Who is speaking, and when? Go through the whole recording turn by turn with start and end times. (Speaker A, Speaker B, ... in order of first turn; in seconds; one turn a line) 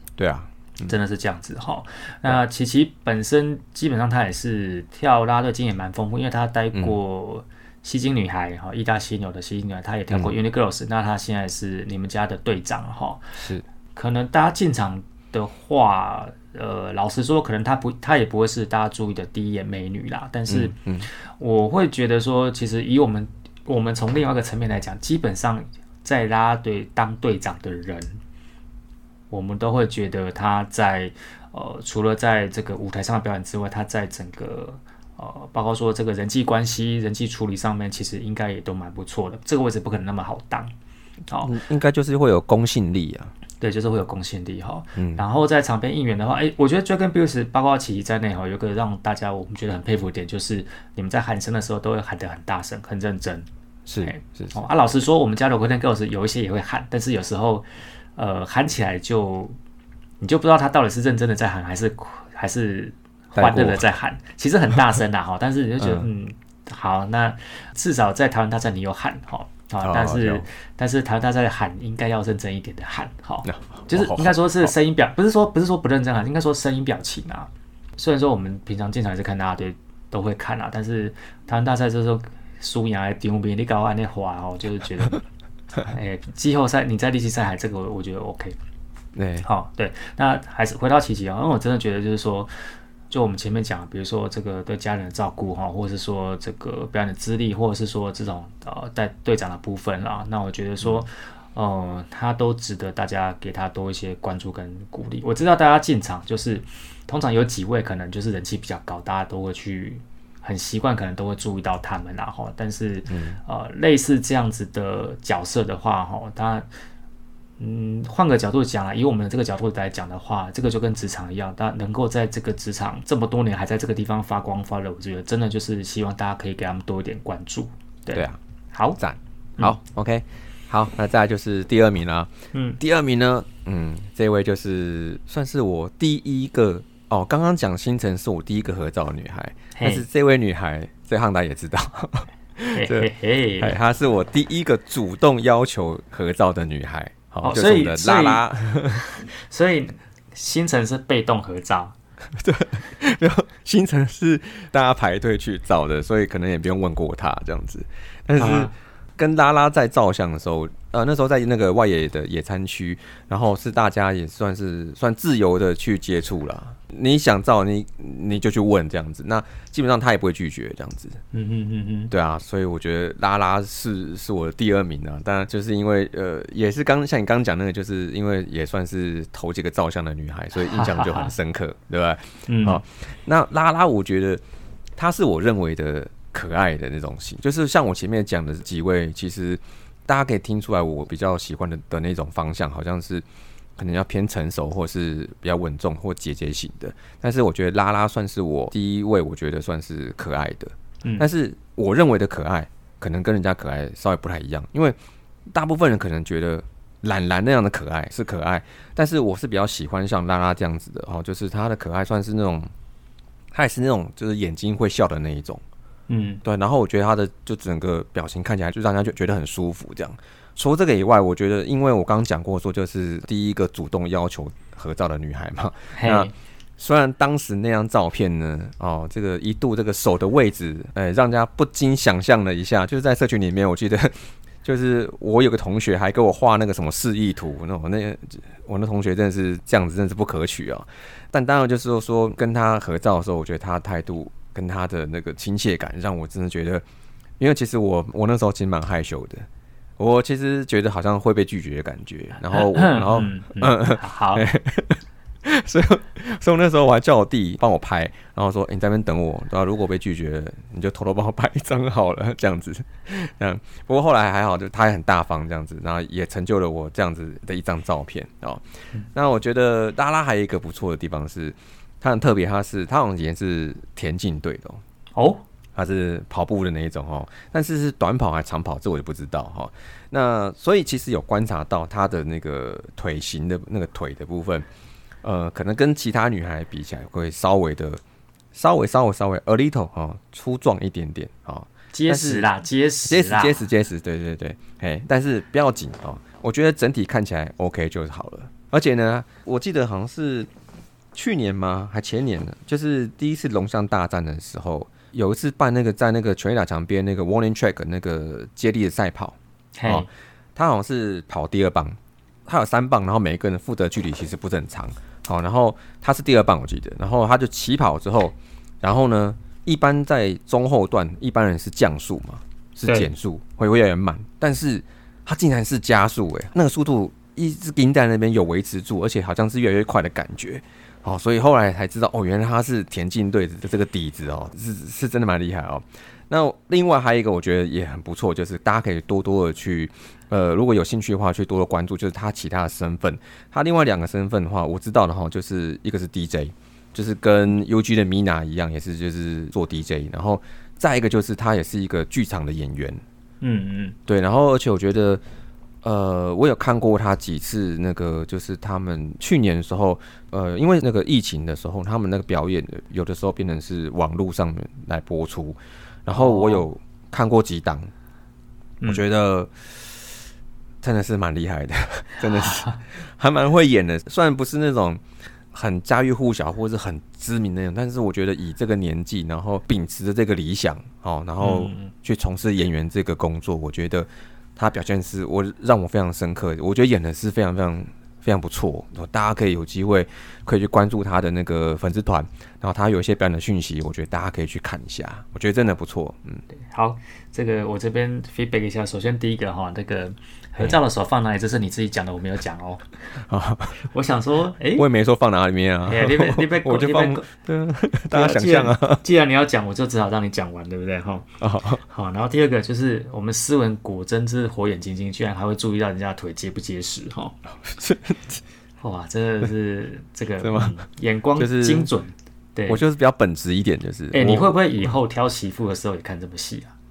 Speaker A: 0.2-0.9
Speaker B: 0.9-13.2
Speaker A: 6.7-7.0
Speaker A: 13.4-13.6
Speaker B: 13.9-28.2
Speaker A: 20.5-21.1
Speaker B: 29.3-40.7
Speaker B: 41.3-41.5
Speaker A: 41.4-43.3
Speaker B: 43.6-53.5
Speaker A: 45.0-45.2
Speaker A: 53.9-54.6
Speaker B: 54.0-59.6
Speaker B: 60.2-85.2
Speaker A: 63.4-63.8
Speaker A: 65.8-66.1
Speaker A: 69.8-70.5
Speaker A: 73.4-74.7
Speaker B: 85.9-88.6
Speaker A: 89.2-89.5
Speaker B: 89.4-92.5
Speaker B: 93.1-116.7
Speaker A: 113.1-113.4
Speaker B: 117.6-129.0
Speaker A: 128.1-128.4
Speaker A: 129.0-149.0
Speaker B: 132.5-132.8
Speaker B: 139.8-140.1
Speaker B: 142.8-143.8
Speaker B: 147.4-151.9
Speaker A: 152.3-171.2
Speaker B: 158.4-158.7
Speaker B: 171.3-172.1
Speaker A: 172.1-184.4
Speaker B: 180.6-181.3
Speaker B: 182.5-182.8
Speaker A: 185.0-193.2
Speaker A: 193.8-205.0
Speaker A: 205.5-212.7
Speaker A: 213.5-215.6
Speaker B: 216.1-216.4
Speaker A: 216.4-246.8
Speaker B: 225.9-226.3
Speaker A: 247.4-249.5
Speaker A: 250.0-268.6
Speaker B: 252.5-254.5
Speaker A: 269.1-274.8
Speaker B: 275.2-275.4
Speaker A: 275.8-284.7
Speaker A: 285.2-288.0
Speaker A: 288.5-292.5
Speaker B: 291.9-293.6
Speaker A: 293.1-300.5
Speaker A: 301.1-353.0
Speaker B: 309.8-310.1
Speaker B: 353.4-354.0
Speaker A: 354.1-355.2
Speaker A: 355.8-367.9
Speaker B: 366.1-366.7
Speaker A: 368.9-369.9
Speaker A: 370.8-396.4
Speaker B: 372.4-372.8
Speaker B: 381.4-381.9
Speaker B: 396.7-402.9
Speaker A: 403.3-403.9
Speaker B: 403.8-404.9
Speaker A: 404.7-409.0
Speaker B: 405.9-407.3
Speaker B: 408.1-411.3
Speaker A: 411.4-411.8
Speaker B: 411.9-417.4
Speaker A: 417.6-418.4
Speaker B: 418.8-422.8
Speaker A: 420.4-420.8
Speaker A: 421.4-421.9
Speaker A: 422.7-424.5
Speaker B: 424.1-426.7